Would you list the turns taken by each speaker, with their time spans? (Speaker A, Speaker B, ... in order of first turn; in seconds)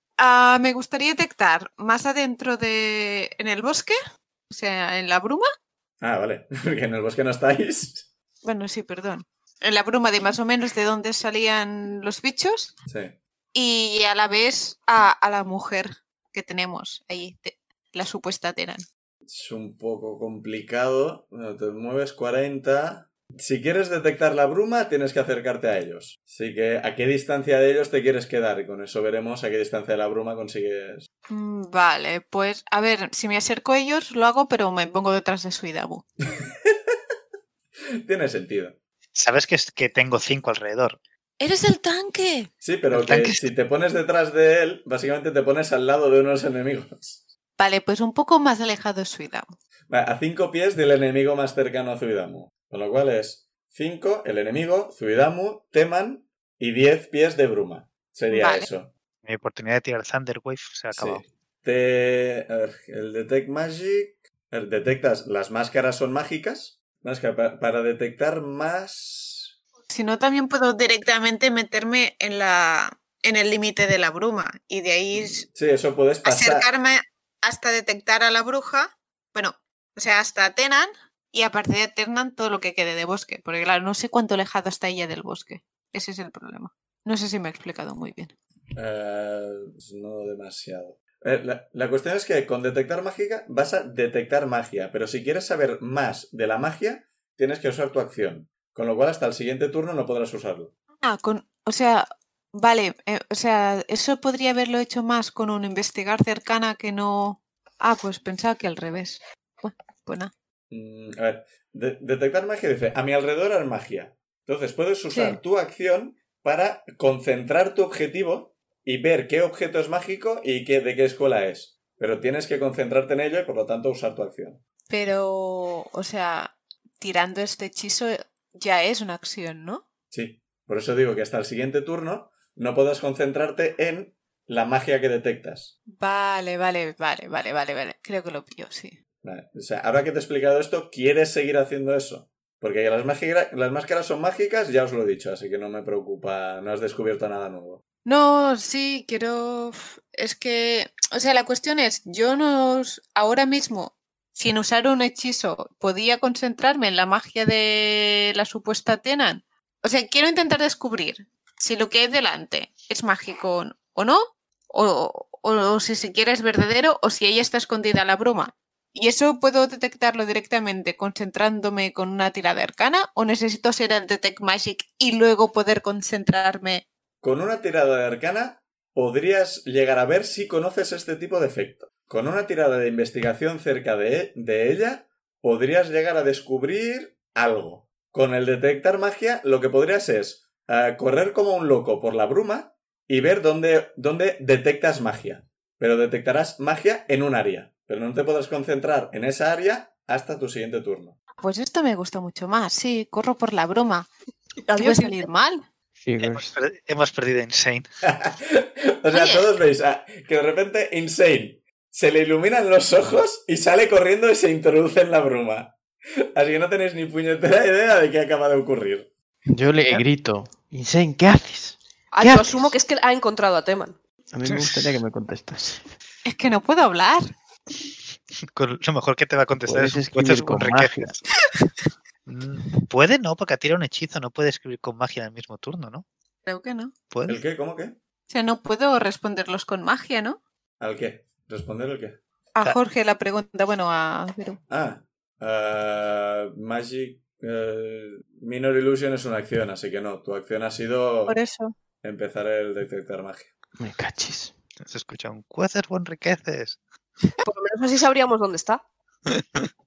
Speaker A: 0.2-4.0, 4.5-5.5, 8.4-12.8, 13.5-18.9, 31.3-36.0, 41.4-42.5, 47.6-49.6, 58.3-58.7, 69.9-75.5, 76.2-88.3, 101.0-110.3, 115.1-115.4, 124.9-129.8, 135.9-139.0, 148.1-176.8, 201.4-204.1, 204.8-205.6, 209.1-209.5, 226.2-227.2, 236.5-236.9, 238.3-240.4, 242.6-244.6, 251.3-251.7
Speaker B: 6.0-8.1, 12.9-13.2, 19.3-31.1, 36.3-37.0, 38.0-38.8, 42.6-47.3, 49.9-58.9, 60.9-69.5, 75.2-76.7, 88.8-100.7, 110.7-124.6, 130.1-135.7, 139.2-147.8, 177.2-201.2, 208.1-215.8, 216.4-219.1, 237.3-238.0, 240.8-242.2, 244.7-251.4, 252.0-253.5
Speaker C: 39.1-41.0, 42.9-43.4, 59.2-61.3, 206.2-207.9, 228.4-231.2, 232.3-236.1, 237.1-237.4, 254.8-256.8, 259.4-259.6
Speaker D: 204.7-205.3, 222.1-224.0, 257.4-258.8
Speaker E: 206.0-206.5, 219.5-222.7, 224.3-225.9, 229.7-231.2, 253.8-254.5